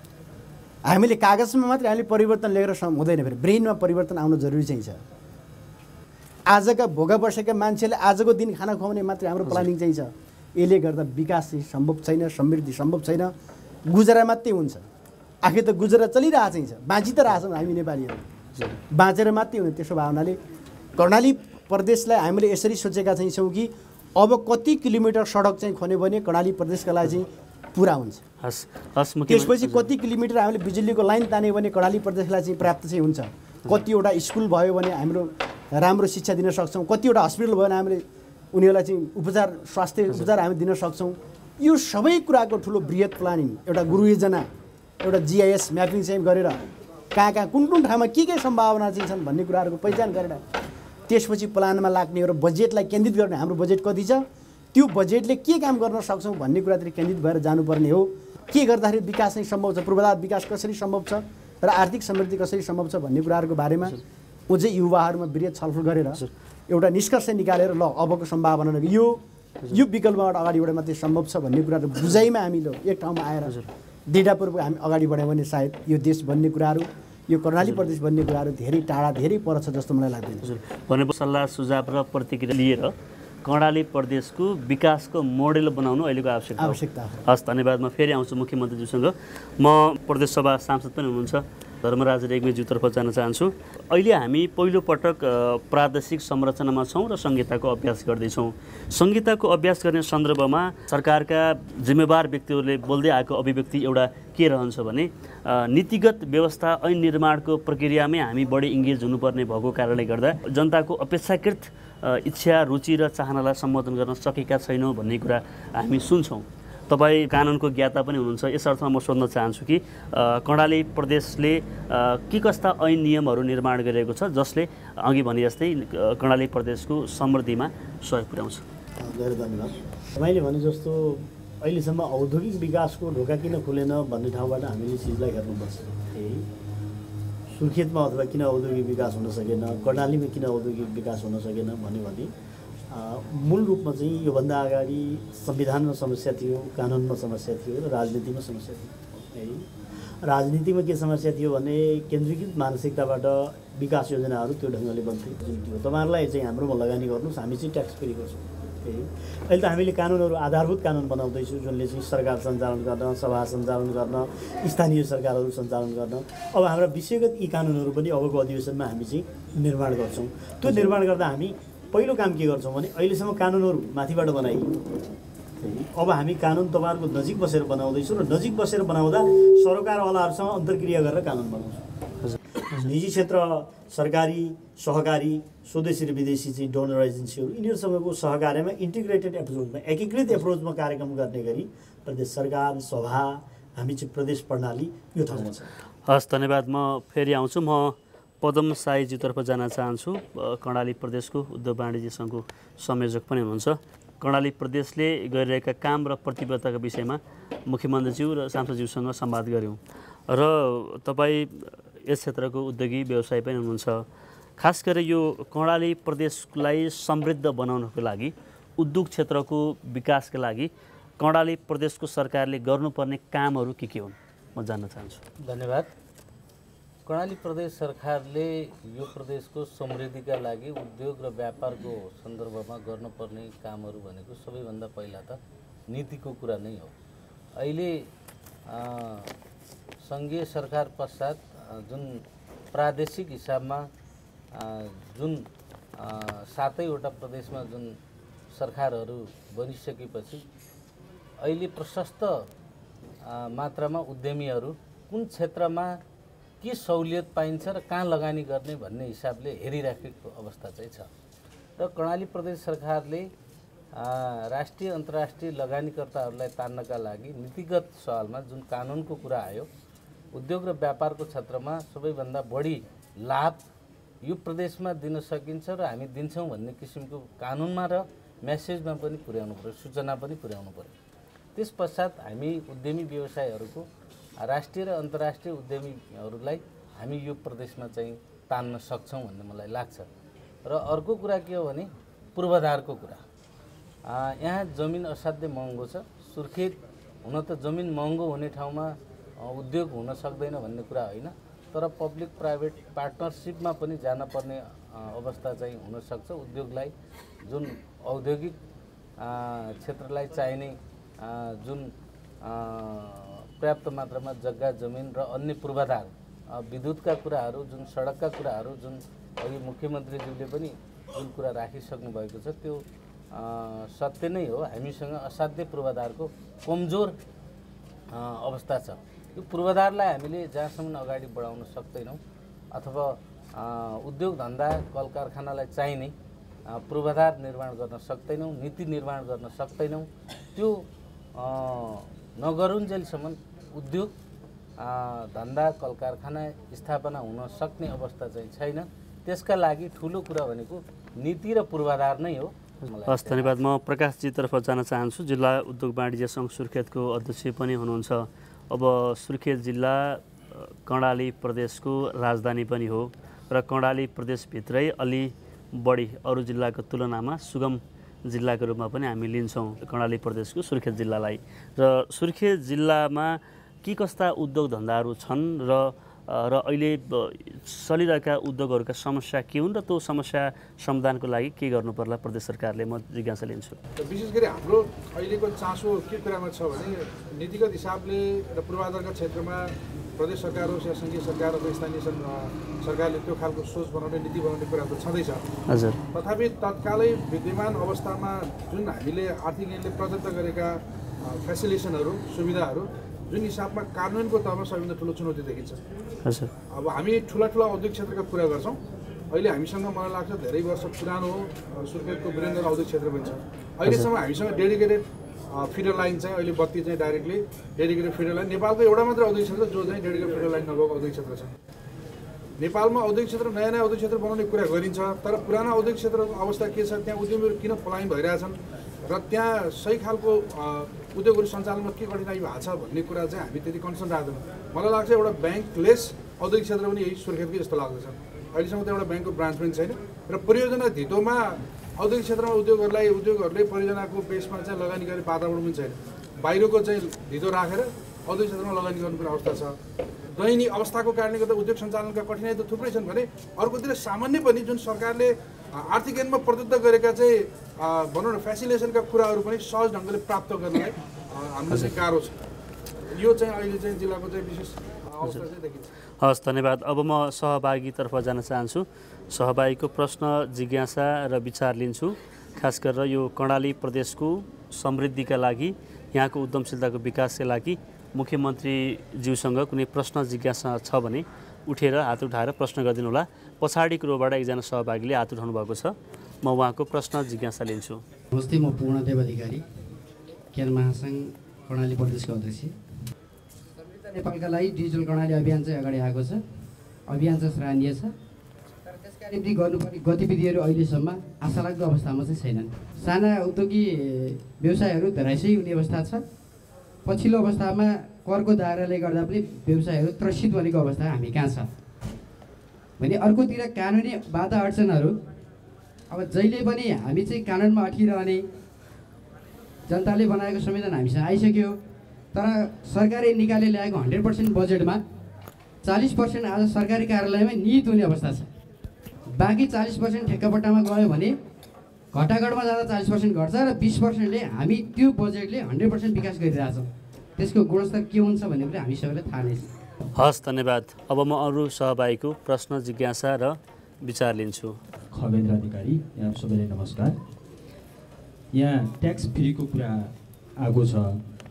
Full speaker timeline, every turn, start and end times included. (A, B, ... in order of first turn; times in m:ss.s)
0:00.8-0:05.0 A
0:06.5-0:13.3 A
0:13.9-0:14.8 A
0:15.4-0:18.2 A
0:18.9-0:20.4 A
0:21.0-0:28.2 A
0:28.4-0:29.9 B
0:29.3-0:44.5 A
0:45.0-0:46.6 A
0:47.1-0:50.4 A
0:51.1-1:13.6 A
1:14.1-1:20.5 A
1:20.4-2:08.6 B
1:26.6-1:27.2 A
2:09.0-2:16.5 C
2:17.5-2:22.3 C
2:22.9-2:29.7 C
2:30.2-2:54.8 C
2:55.6-3:01.8 C
3:02.2-3:02.9 B
3:02.8-3:15.7 C
3:16.1-3:34.1 B
3:34.6-3:45.2 B
3:45.4-3:45.9 D
3:47.1-3:55.4 D
3:55.9-3:56.9 D
3:57.6-3:58.1 D
3:58.7-3:59.3 D
4:00.0-4:02.2 D
4:02.7-4:03.9 D
4:04.5-4:05.4 D
4:06.0-4:08.0 D
4:08.5-4:10.4 D
4:11.4-4:12.5 D
4:13.2-4:16.0 D
4:16.6-4:21.1 D
4:21.8-4:23.3 D
4:24.0-4:29.7 D
4:30.3-4:33.6 D
4:34.2-4:40.9 D
4:41.6-4:43.8 D
4:44.4-4:50.1 D
4:50.6-4:53.2 D
4:54.1-5:06.9 D
5:07.4-5:08.6 D
5:09.2-5:11.9 D
5:12.4-5:22.8 D
5:23.3-5:27.2 D
5:28.1-5:32.2 D
5:32.7-5:36.1 D
5:36.7-5:40.8 D
5:41.4-5:44.1 D
5:44.8-5:53.5 D
5:53.1-6:23.8 B
6:24.0-6:35.4 E
6:35.7-6:36.0 B
6:36.1-6:45.8 E
6:46.2-6:46.5 B
6:46.7-6:48.8 E
6:49.3-7:01.5 E
7:02.6-7:29.8 E
7:30.4-7:42.3 E
7:43.1-7:45.9 E
7:46.2-8:08.0 B
8:08.3-8:09.6 F
8:10.5-8:12.8 F
8:14.1-8:16.4 F
8:17.1-8:18.1 F
8:19.2-8:26.2 F
8:27.1-8:31.7 F
8:33.0-8:35.2 F
8:36.1-8:38.4 F
8:39.9-8:41.8 F
8:42.3-8:45.0 F
8:45.8-8:48.5 F
8:49.4-8:51.4 F
8:52.1-8:59.7 F
9:00.2-9:04.8 B
9:05.1-9:07.2 G
9:08.5-9:11.2 G